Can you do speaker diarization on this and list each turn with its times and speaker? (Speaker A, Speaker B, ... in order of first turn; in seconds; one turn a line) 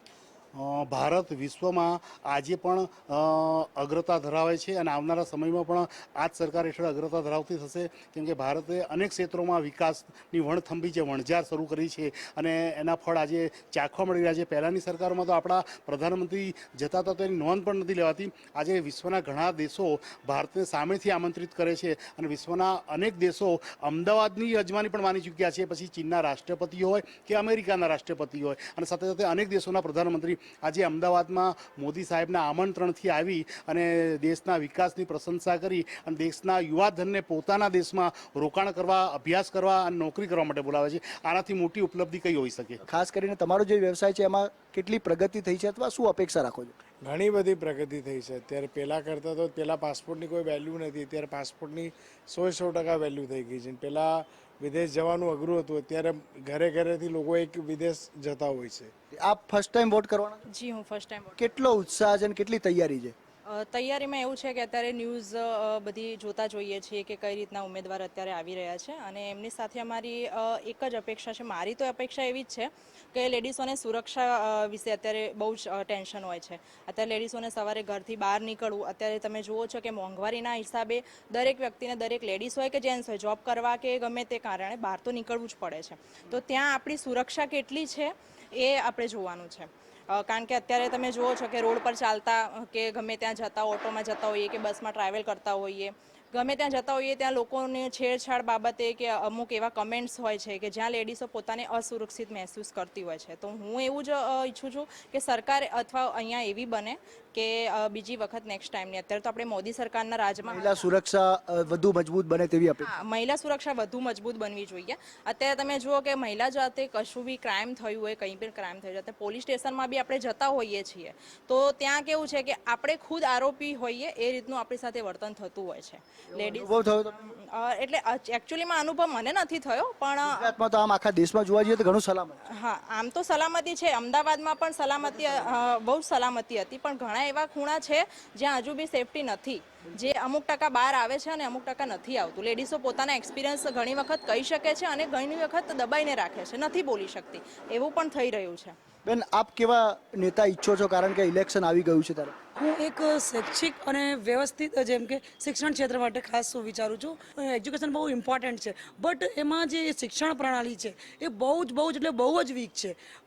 Speaker A: 0.5-42.8
Speaker B: 42.9-46.8
Speaker C: 47.0-58.9
Speaker B: 59.2-60.4
Speaker D: 60.5-61.4
Speaker B: 61.4-63.1
Speaker D: 63.5-110.9
Speaker B: 110.5-112.9
Speaker D: 112.8-130.5
Speaker B: 126.3-127.3
Speaker B: 130.2-132.4
Speaker D: 132.6-148.7
Speaker B: 135.0-135.5
Speaker B: 149.1-152.3
Speaker E: 152.6-163.0